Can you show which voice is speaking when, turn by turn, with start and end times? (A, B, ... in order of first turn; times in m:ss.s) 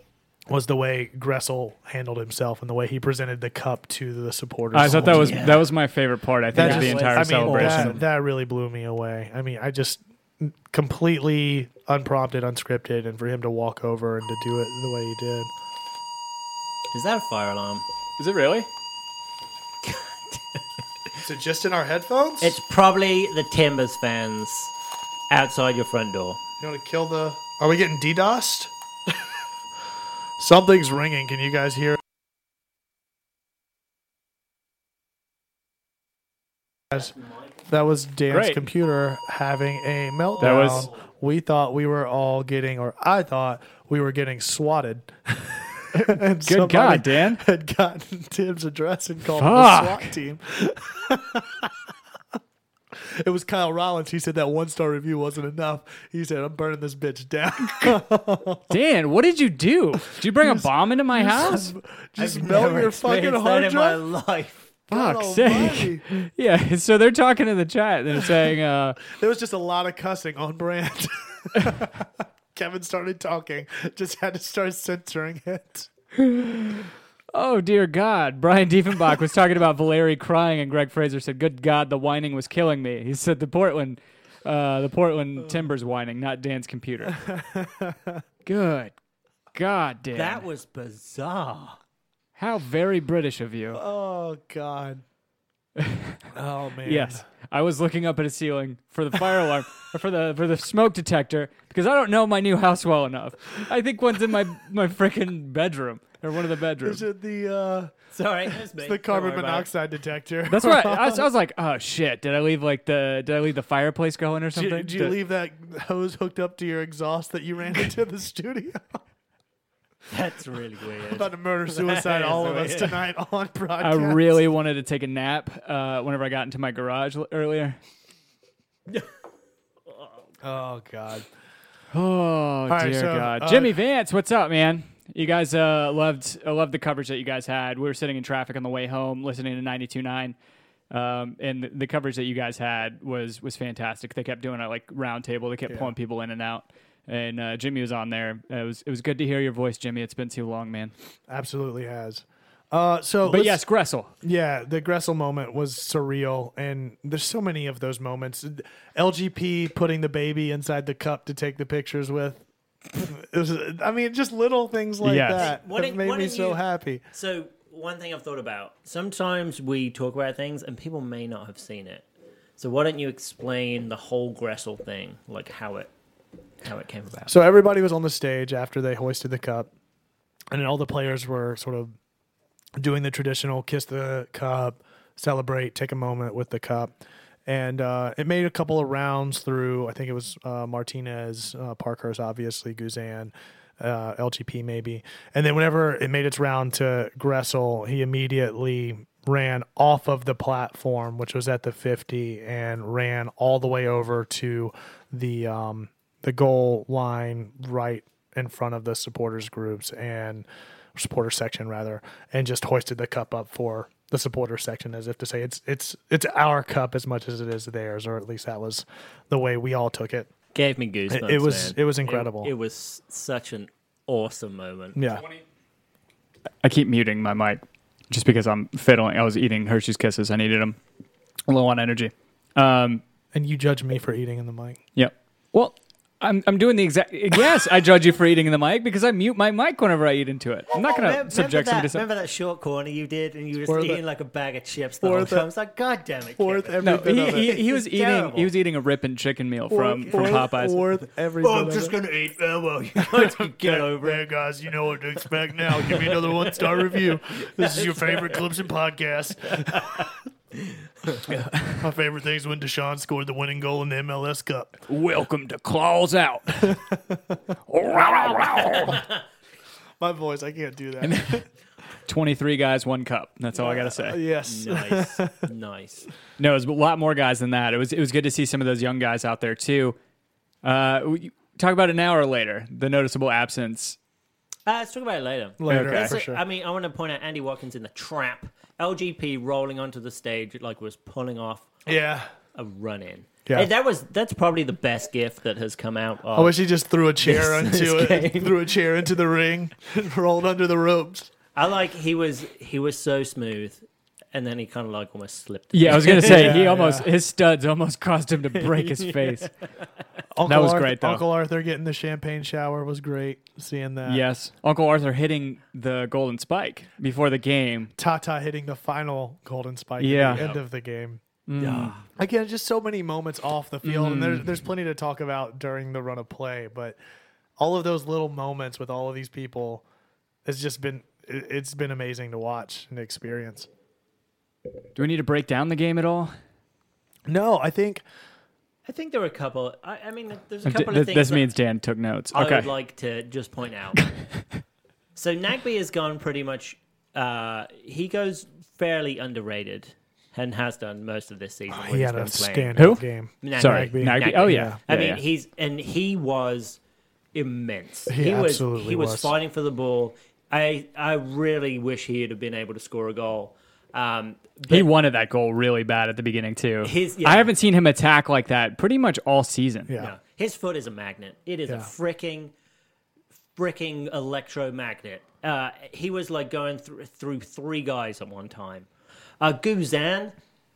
0:00.5-0:05.5 A
0:04.7-0:08.0 B
0:04.8-0:05.7 C
0:06.5-0:08.0 C
0:06.5-0:15.5 A
0:16.9-0:17.8 C
0:18.2-0:18.7 B
0:19.8-0:20.6 C
0:21.2-0:22.6 A
0:22.4-0:24.7 C
0:25.3-0:26.4 C
0:26.6-0:28.7 A
0:30.4-0:32.0 A
0:37.7-0:51.8 A
0:38.3-0:38.6 B
0:40.4-0:40.9 C
0:40.4-0:40.9 B
0:45.9-0:47.4 B
0:49.3-0:50.2 B
0:53.0-0:58.7 A
0:58.7-1:01.7 B
1:00.4-1:04.0 A
1:02.2-1:04.8 C
1:04.9-1:06.0 A
1:04.9-1:09.0 B
1:09.0-1:15.9 A
1:16.2-1:27.2 B
1:27.1-1:28.2 A
1:28.4-1:28.9 B
1:29.5-1:30.4 B
1:30.1-1:31.8 C
1:32.4-1:33.8 B
1:33.7-1:35.0 A
1:35.8-1:36.2 B
1:36.3-1:37.2 A
1:36.8-1:47.0 B
1:46.8-1:48.0 A
1:48.1-1:49.7 C
1:48.5-1:51.3 A
1:50.5-1:55.2 B
1:54.5-1:59.0 A
2:00.1-2:03.0 C
2:01.1-2:04.4 A
2:03.8-2:07.8 B
2:10.4-2:11.3 A
2:11.9-2:20.4 B
2:12.7-2:13.8 A
2:20.9-2:30.9 B
2:31.3-2:33.6 A
2:33.3-2:34.1 B
2:34.2-2:47.0 A
2:45.0-2:45.4 B
2:45.4-2:52.1 C
2:52.6-2:55.9 C
2:56.6-2:57.3 C
2:57.3-2:59.7 A
3:00.5-3:01.9 A
3:02.8-3:06.9 A
3:07.5-3:40.3 A
3:40.5-3:45.0 C
3:41.1-3:42.5 A
3:45.0-3:45.2 A
3:46.6-3:50.8 B
3:51.5-3:53.0 B
3:53.3-3:54.8 A
3:55.0-4:02.0 B
4:00.7-4:08.5 C
4:03.7-4:04.0 A
4:05.0-4:05.5 A
4:06.4-4:07.6 A
4:06.8-4:10.8 B
4:09.7-4:12.0 A
4:10.1-4:10.5 C
4:11.4-4:14.2 C
4:13.0-4:20.1 A
4:15.7-4:18.4 C
4:19.5-4:21.4 C
4:21.6-4:24.8 A
4:24.9-4:26.8 B
4:26.6-4:27.4 A
4:27.7-4:29.0 B
4:27.9-4:29.0 A
4:30.0-4:31.5 A
4:31.0-4:31.4 B
4:32.1-4:34.2 B
4:33.6-4:35.4 A
4:34.4-4:36.1 C
4:36.4-4:40.0 B
4:40.6-4:44.0 B
4:44.7-4:51.7 C
4:45.6-4:46.4 A
4:45.7-4:46.2 B
4:51.9-4:52.3 A
4:52.6-4:56.6 C
4:56.3-5:01.3 A
4:57.2-4:58.6 C
5:01.6-5:06.6 C
5:05.7-5:09.5 B
5:06.0-5:07.1 A
5:08.6-5:09.4 C
5:10.3-5:14.2 A
5:10.5-5:11.2 B
5:14.1-5:17.9 B
5:18.0-5:21.2 A
5:20.0-5:20.4 B
5:20.3-5:20.6 C
5:21.5-5:22.0 B
5:21.6-5:22.1 C
5:22.2-5:27.0 A
5:23.8-5:24.5 B
5:27.6-5:29.8 A
5:30.4-5:33.7 A
5:35.0-5:36.3 B
5:37.3-5:38.0 A
5:38.9-5:41.5 C
5:40.6-5:42.7 B
5:42.3-5:44.0 C
5:45.2-5:52.9 C
5:51.7-5:54.8 A
5:52.8-5:53.0 B
5:53.4-5:56.8 C
5:53.6-5:55.2 B
5:57.3-6:04.9 C
5:58.1-5:59.3 A
6:04.7-6:09.9 B
6:06.8-6:07.5 C
6:09.9-6:10.1 A
6:10.0-6:12.5 C
6:13.6-6:18.9 C
6:19.4-6:20.3 C